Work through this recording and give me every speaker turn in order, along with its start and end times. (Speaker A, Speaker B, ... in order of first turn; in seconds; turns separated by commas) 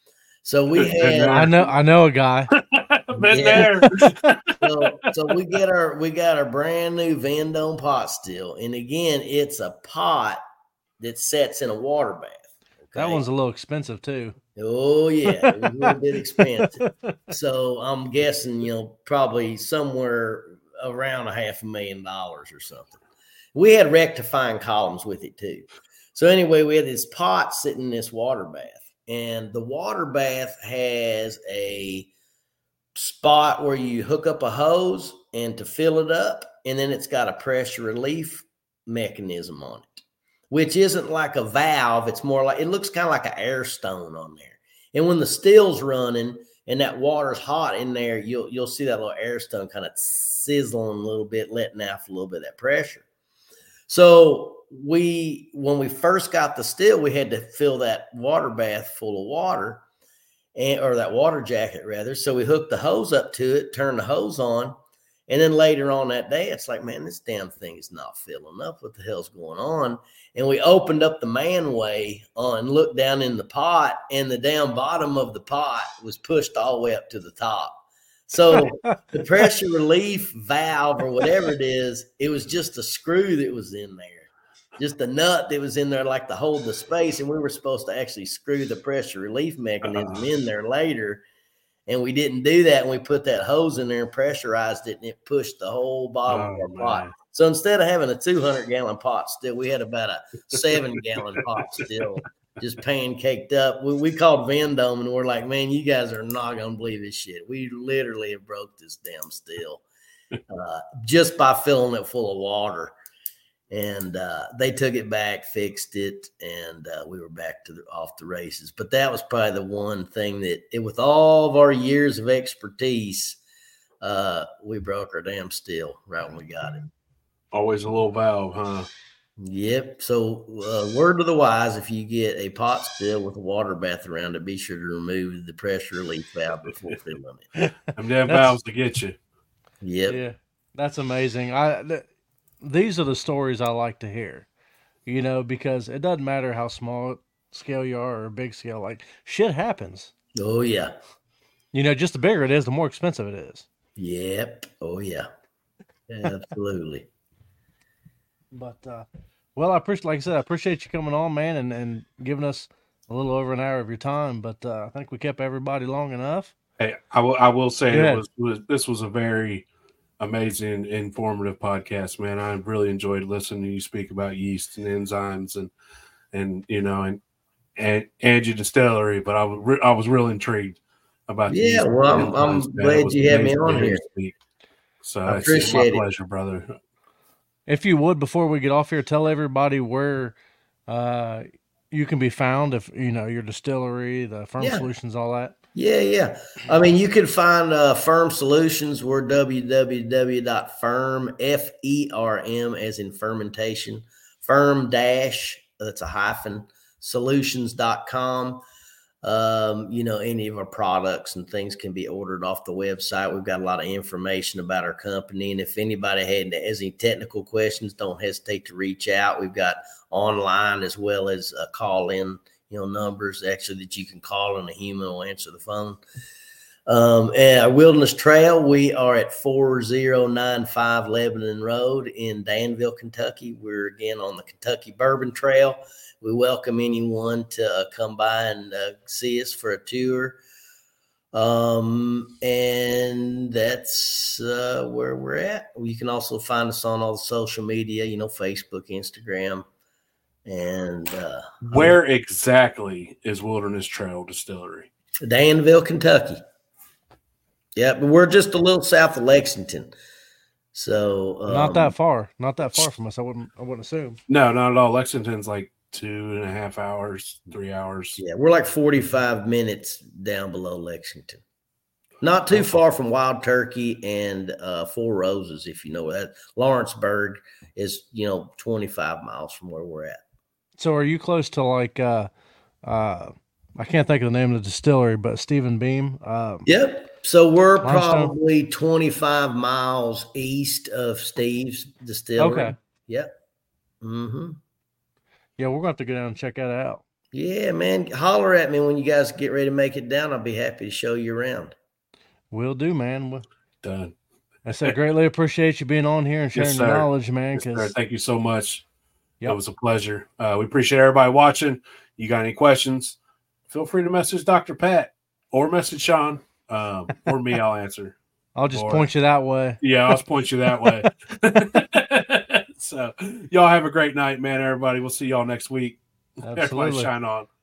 Speaker A: 0.4-1.5, Speaker B: 0.7-1.7, Speaker C: 1.1-2.5, Speaker B: 2.5-5.1, Speaker A: 3.2-3.7, Speaker C: 3.5-4.0, Speaker A: 4.6-10.4, Speaker A: 11.0-13.2, Speaker C: 12.9-14.4, Speaker A: 14.6-23.0, Speaker C: 15.3-16.9, Speaker A: 23.5-32.1, Speaker A: 32.9-53.0, Speaker A: 53.9-59.8, Speaker A: 60.5-64.7, Speaker A: 65.3-91.2, Speaker C: 78.5-78.9, Speaker B: 89.8-90.2, Speaker A: 91.9-109.8, Speaker B: 96.3-97.1, Speaker A: 110.5-112.9, Speaker A: 113.7-123.4, Speaker A: 124.0-126.9, Speaker B: 127.5-128.9, Speaker A: 129.4-137.5, Speaker B: 137.9-139.2, Speaker C: 138.3-138.6, Speaker A: 139.8-140.2, Speaker C: 140.1-142.1, Speaker C: 142.6-144.5, Speaker C: 145.1-150.1, Speaker A: 150.3-150.9, Speaker C: 151.7-153.7, Speaker A: 154.0-155.3, Speaker A: 156.1-157.1, Speaker C: 158.5-166.5, Speaker B: 166.8-169.6, Speaker C: 167.9-168.2, Speaker B: 170.2-175.7, Speaker B: 176.3-177.2, Speaker B: 177.8-184.3, Speaker A: 181.5-184.0, Speaker B: 185.0-186.8, Speaker A: 185.2-186.0, Speaker C: 187.7-190.3, Speaker C: 190.9-195.5, Speaker A: 194.6-194.8, Speaker A: 195.7-208.6, Speaker A: 209.2-226.0, Speaker A: 226.9-240.4, Speaker A: 241.3-249.7, Speaker A: 250.4-252.0, Speaker B: 251.7-254.9, Speaker A: 255.2-256.4, Speaker A: 257.8-259.9, Speaker A: 260.7-261.9, Speaker C: 261.5-264.2, Speaker B: 264.3-268.2, Speaker A: 268.2-271.4, Speaker A: 272.2-280.2, Speaker C: 280.8-282.3, Speaker C: 282.8-286.7, Speaker A: 286.6-293.3, Speaker C: 287.8-288.3, Speaker C: 292.4-292.7, Speaker A: 294.0-294.6, Speaker C: 295.6-297.0, Speaker A: 297.3-301.7, Speaker C: 302.5-303.4, Speaker B: 303.8-304.1, Speaker C: 304.6-307.9, Speaker B: 306.5-308.8, Speaker B: 309.4-313.2, Speaker B: 313.7-318.2, Speaker C: 318.5-319.8, Speaker B: 318.7-319.1, Speaker B: 319.8-327.5, Speaker C: 326.4-327.1